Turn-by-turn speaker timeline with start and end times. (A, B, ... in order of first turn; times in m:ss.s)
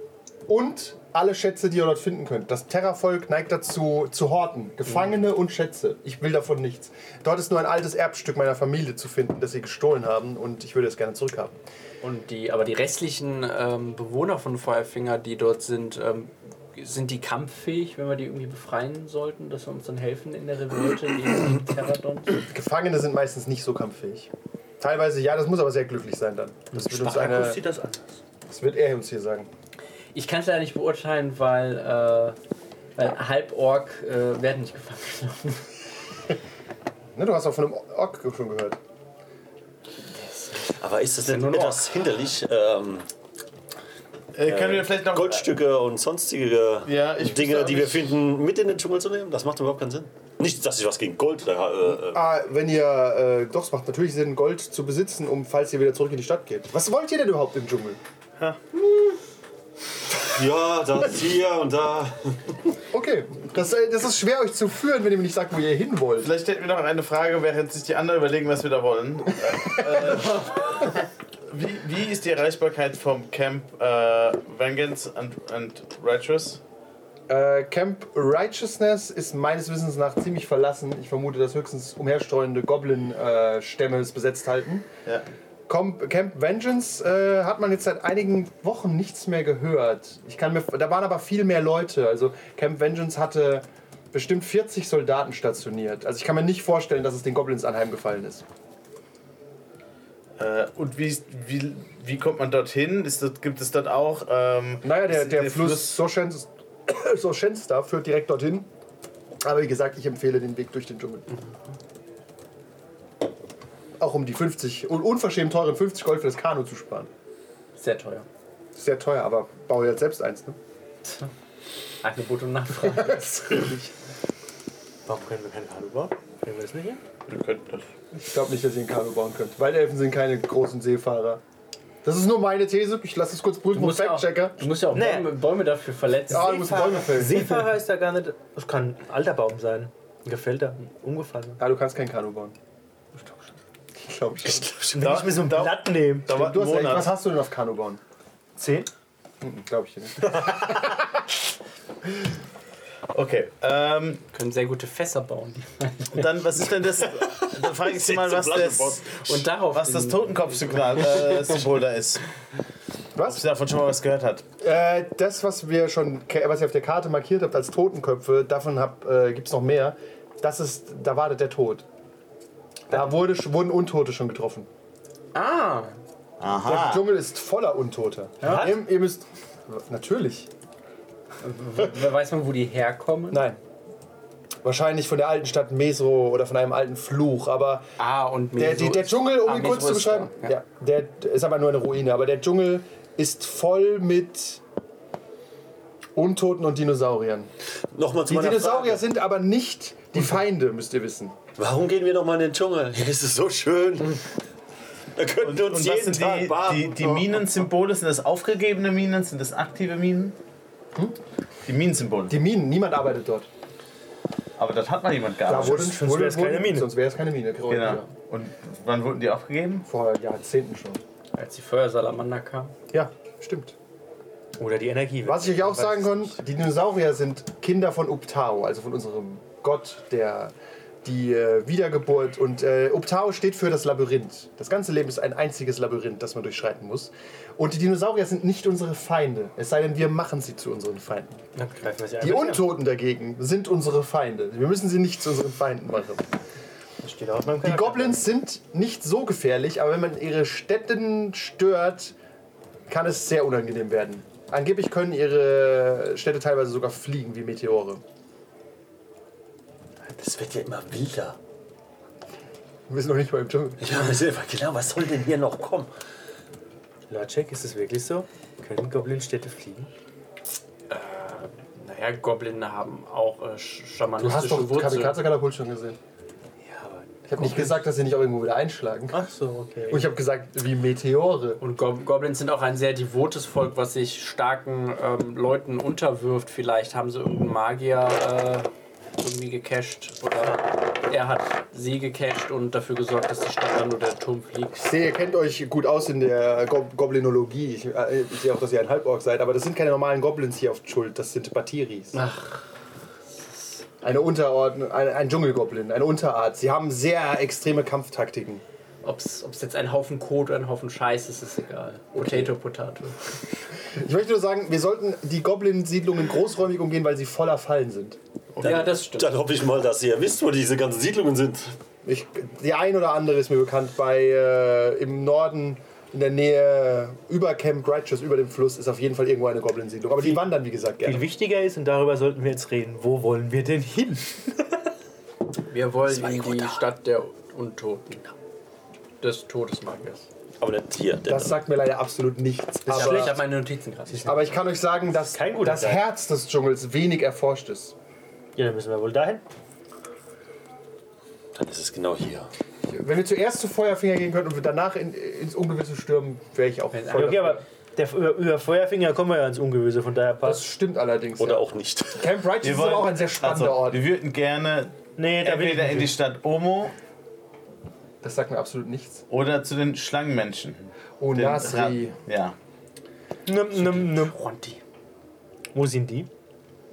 0:00.5-0:11.6 A
0:12.0-0:22.4 B
0:22.5-0:27.6 A
0:26.7-0:28.2 C
0:28.5-0:29.5 A
0:30.1-0:32.4 B
0:33.0-0:35.6 B
0:37.1-0:38.8 A
0:40.2-0:40.7 B
0:40.8-0:43.1 D
0:41.2-0:41.9 B
0:44.3-0:45.6 E
0:44.5-0:52.2 D
0:46.8-0:48.2 E
0:52.0-0:58.0 A
1:00.2-1:02.5 D
1:02.9-1:06.3 A
1:06.2-1:16.6 E
1:09.8-1:10.2 A
1:17.3-1:24.9 A
1:25.7-1:38.4 A
1:40.4-1:46.0 E
1:44.8-1:48.7 A
1:49.4-1:51.3 A
1:54.0-1:57.1 A
1:57.8-1:58.2 B
1:58.7-2:00.6 A
2:02.0-2:03.7 B
2:02.9-2:03.9 A
2:05.0-2:07.0 C
2:07.3-2:07.9 E
2:08.3-2:11.4 A
2:12.0-2:14.7 A
2:13.7-2:17.1 B
2:14.9-2:15.4 C
2:16.3-2:17.6 A
2:16.5-2:21.6 C
2:21.6-2:22.6 A
2:24.0-2:24.7 A
2:24.4-2:25.0 D
2:24.9-2:26.3 C
2:25.0-2:27.1 E
2:26.3-2:28.0 A
2:28.6-2:28.9 C
2:29.4-2:31.0 A
2:33.1-2:34.2 E
2:34.3-2:36.3 B
2:36.1-2:39.2 E
2:37.2-2:39.4 D
2:39.2-2:41.5 B
2:39.7-2:42.2 E
2:43.2-2:43.4 A
2:43.2-2:44.4 E
2:44.6-2:51.8 A
2:52.9-2:54.7 A
2:55.3-2:56.0 B
2:56.4-2:57.0 E
2:56.6-3:00.5 A
2:58.4-2:58.7 B
2:58.4-2:58.8 C
3:01.4-3:03.5 B
3:03.3-3:03.6 A
3:04.6-3:07.9 A
3:08.0-3:10.6 B
3:08.6-3:14.6 A
3:16.2-3:17.5 A
3:17.9-3:19.0 D
3:18.3-3:21.3 A
3:21.6-3:24.3 D
3:25.2-3:27.4 D
3:25.4-3:30.4 E
3:31.6-3:32.4 E
3:32.3-3:33.5 A
3:34.6-3:35.8 E
3:35.4-3:38.1 A
3:35.5-3:36.9 C
3:37.7-3:39.8 E
3:39.8-3:41.0 A
3:41.4-3:42.7 B
3:42.9-3:43.7 A
3:44.6-3:46.3 C
3:45.2-3:50.5 A
3:51.0-4:01.4 A
4:01.6-4:02.6 C
4:02.2-4:06.2 A
4:07.0-4:08.2 C
4:07.6-4:12.1 A
4:12.9-4:18.0 A
4:20.0-4:21.4 D
4:22.9-4:23.8 A
4:23.8-4:25.9 D
4:27.1-4:29.9 C
4:30.9-4:35.2 B
4:34.2-4:36.0 A
4:36.6-4:37.8 C
4:37.3-4:39.2 A
4:39.1-4:40.0 C
4:39.9-4:41.6 A
4:41.6-4:48.7 B
4:49.2-4:54.8 B
4:54.8-5:02.2 A
5:02.1-5:02.7 B
5:04.0-5:08.6 A
5:09.0-5:13.3 B
5:12.2-5:12.5 A
5:13.9-5:18.2 A
5:18.5-5:18.9 E
5:18.6-5:19.4 B
5:18.6-5:21.7 D
5:22.0-5:31.2 A
5:31.0-5:34.8 C
5:35.7-5:38.3 B
5:39.2-5:40.2 B
5:40.6-5:41.6 D
5:41.3-5:43.4 A
5:42.8-5:44.5 B
5:44.2-5:47.9 A
5:45.2-5:46.0 C
5:48.6-5:49.4 C
5:51.5-5:52.5 D
5:52.9-5:57.6 A
5:56.9-5:57.6 B
5:57.1-6:00.6 C
6:00.4-6:04.0 A
6:01.4-6:02.3 D
6:02.6-6:06.9 E
6:05.2-6:06.1 C
6:08.2-6:09.2 A
6:09.3-6:12.5 E
6:11.2-6:12.1 A
6:13.4-6:14.3 C
6:13.7-6:14.8 B
6:15.7-6:16.3 C